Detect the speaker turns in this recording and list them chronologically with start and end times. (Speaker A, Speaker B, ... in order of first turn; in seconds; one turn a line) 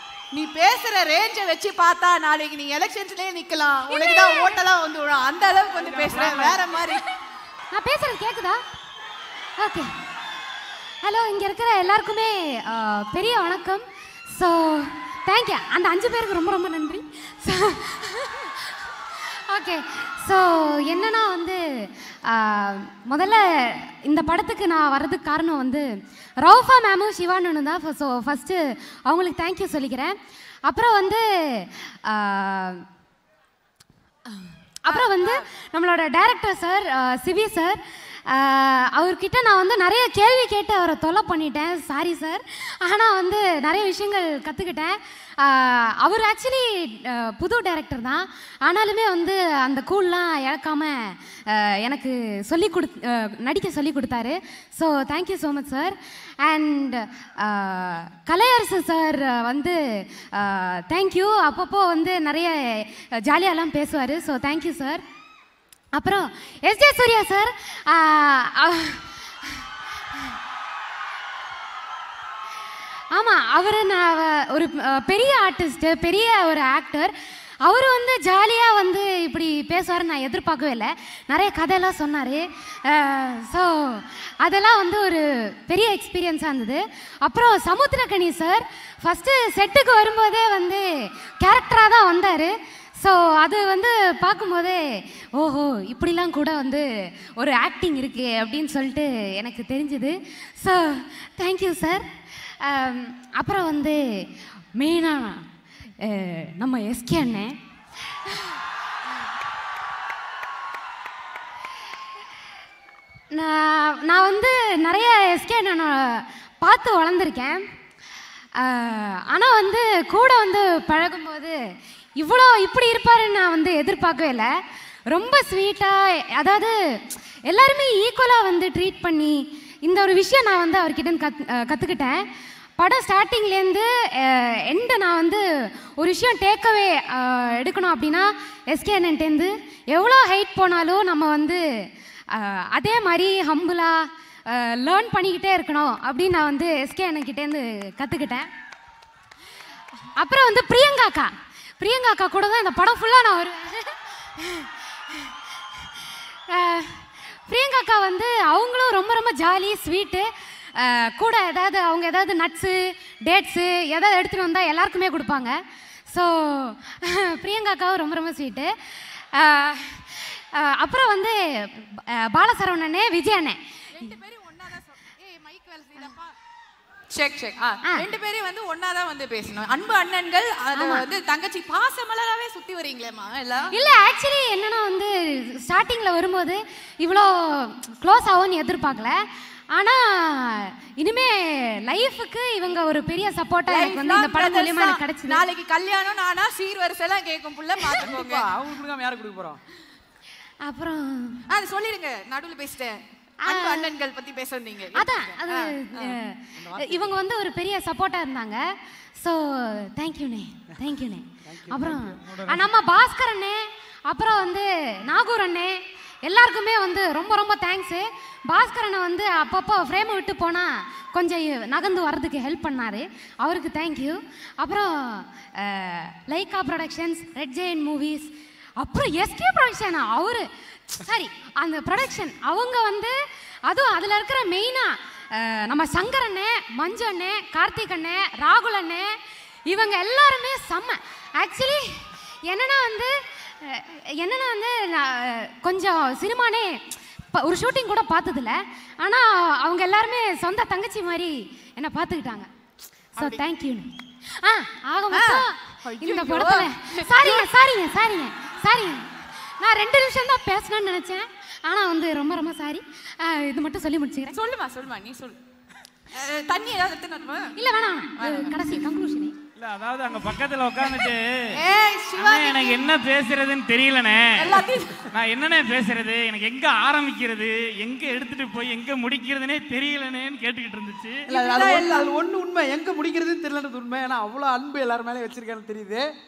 Speaker A: 0.3-7.0
Speaker B: 3.9-4.5
Speaker C: 5.8-6.6
Speaker B: 7.7-8.6
Speaker B: 9.6-9.9
Speaker B: 11.0-25.9
Speaker B: 26.4-30.1
Speaker B: 30.7-32.8
Speaker B: 34.9-65.0
Speaker A: 34.9-35.5
Speaker B: 66.0-69.2
Speaker B: 73.1-104.0
Speaker B: 104.8-105.5
Speaker B: 106.0-107.6
Speaker B: 108.3-108.6
Speaker B: 113.3-117.6
Speaker B: 118.5-121.6
Speaker B: 122.2-124.5
Speaker B: 125.1-132.2
Speaker B: 132.8-141.6
Speaker B: 142.3-148.5
Speaker B: 150.2-155.3
Speaker B: 156.5-173.6
Speaker A: 173.9-176.3
Speaker A: 177.1-183.7
Speaker B: 180.8-181.0
Speaker B: 183.7-189.2
Speaker B: 189.7-195.4
Speaker A: 193.7-198.5
Speaker C: 198.0-199.6
Speaker B: 200.6-201.4
Speaker A: 201.5-206.2
Speaker B: 203.4-203.9
Speaker B: 204.9-239.1
Speaker C: 206.6-207.1
Speaker C: 211.5-212.6
Speaker B: 239.7-246.8
Speaker B: 247.3-252.5
Speaker B: 253.2-264.4
Speaker A: 255.1-257.5
Speaker A: 264.3-265.4
Speaker A: 266.1-267.5
Speaker B: 267.6-269.4
Speaker A: 268.2-268.6
Speaker D: 269.6-271.6
Speaker A: 270.9-272.9
Speaker D: 272.2-274.6
Speaker A: 274.4-275.1
Speaker D: 275.1-281.3
Speaker C: 281.3-286.1
Speaker A: 281.3-282.1